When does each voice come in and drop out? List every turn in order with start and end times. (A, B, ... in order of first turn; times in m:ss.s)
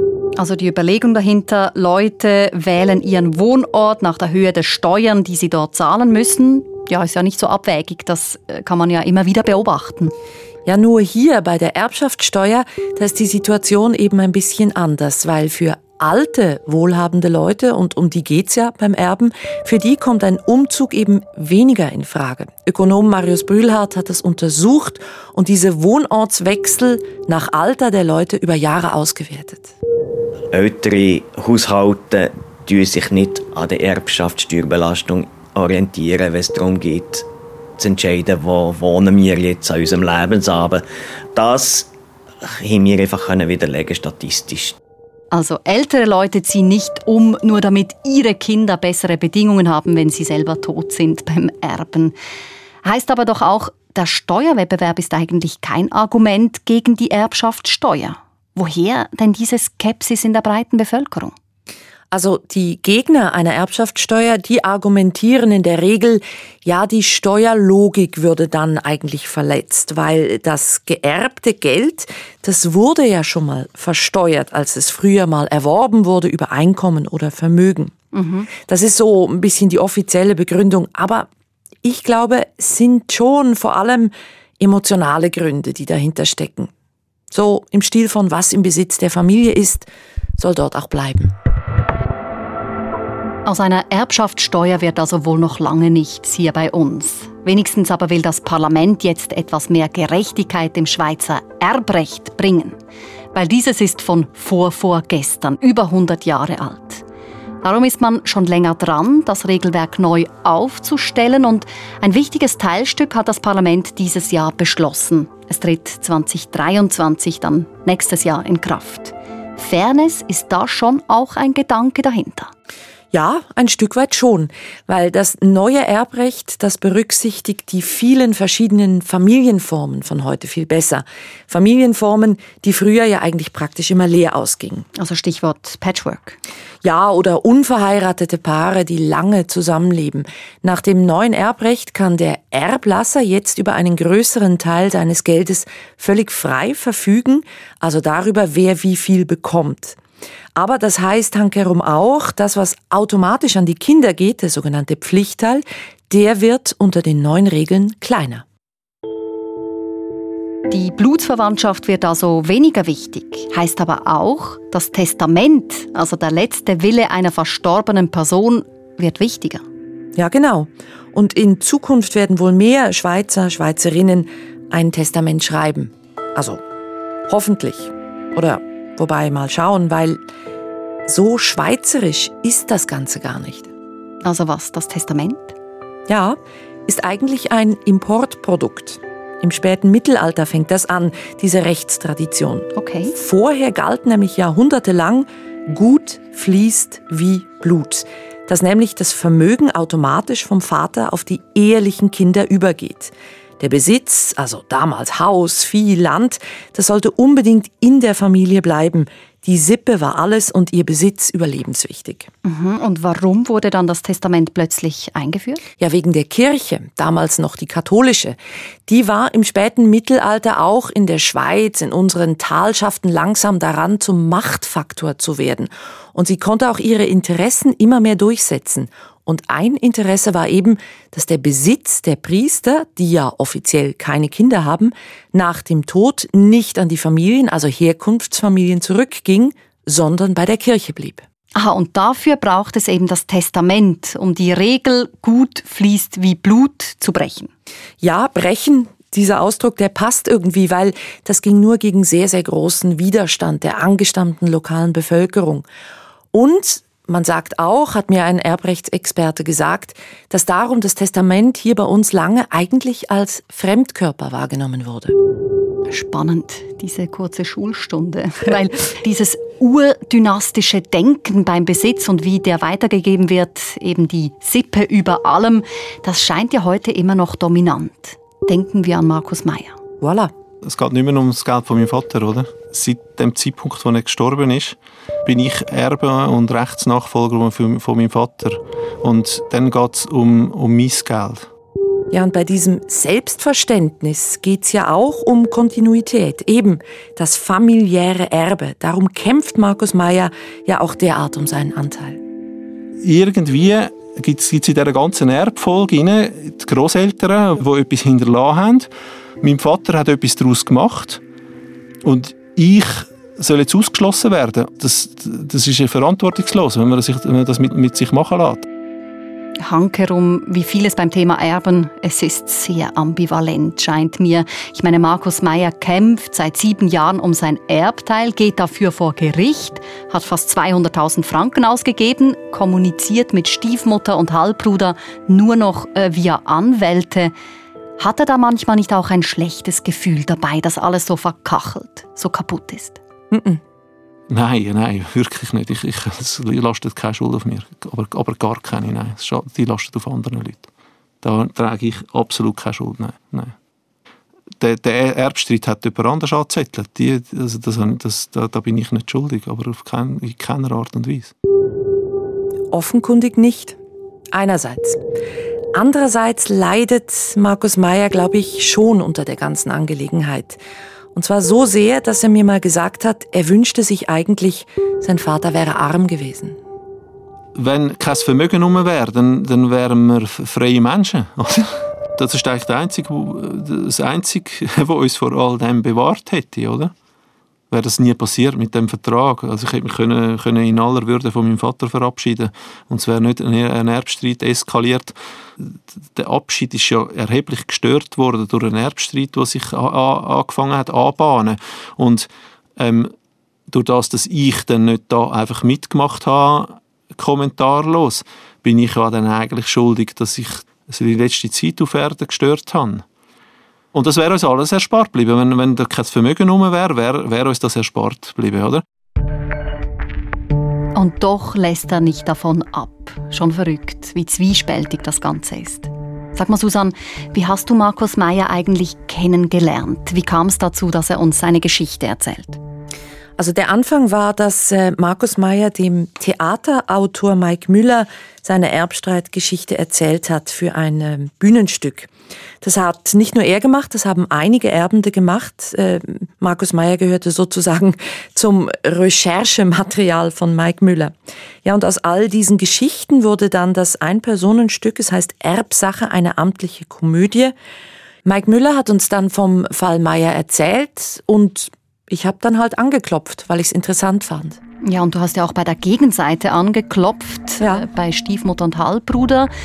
0:00.4-0:10.1 A
0:10.6-0:29.7 B
0:30.5-0:37.2 C
0:37.8-0:41.9 C
0:42.4-0:44.8 C
0:45.3-0:52.1 A
0:52.8-1:01.3 A
1:02.1-1:17.9 B
1:18.1-1:18.5 A
1:18.5-1:21.3 B
1:21.8-1:26.7 B
1:27.3-1:31.3 B
1:33.4-1:42.8 A
1:43.3-1:47.0 A
1:47.6-2:02.5 A
2:03.1-2:14.8 B
2:14.9-2:16.4 A
2:16.8-2:30.0 B
2:30.5-2:38.4 B
2:40.7-2:49.6 A
2:50.1-2:56.6 B
2:57.3-3:00.2 B
3:01.0-3:03.7 B
3:04.2-3:05.6 A
3:06.1-3:32.3 B
3:12.7-3:13.1 A
3:32.4-3:35.6 A
3:35.8-4:01.2 B
4:01.5-4:07.5 A
4:08.0-4:15.6 B
4:16.3-4:25.2 B
4:25.9-4:39.8 A
4:40.0-4:40.3 B
4:40.6-4:51.5 D
4:52.1-5:02.2 B
5:03.0-5:08.9 D
5:09.4-5:11.2 D
5:12.0-5:18.6 D
5:19.6-5:37.3 A
5:38.0-5:43.0 A
5:43.3-5:43.6 B
5:44.3-5:50.7 D
5:51.2-5:53.5 D
5:54.6-6:01.3 D
6:02.7-6:03.8 B
6:04.3-6:05.0 B
6:05.7-6:10.6 B
6:11.1-6:16.6 B
6:17.6-6:26.9 D
6:27.7-6:43.1 D
6:43.7-6:53.0 D
6:53.9-6:58.8 D
7:00.9-7:12.6 A
7:13.4-7:22.1 B
7:22.6-7:37.5 B
7:38.2-7:44.6 B
7:44.8-7:49.5 A
7:47.6-7:47.9 B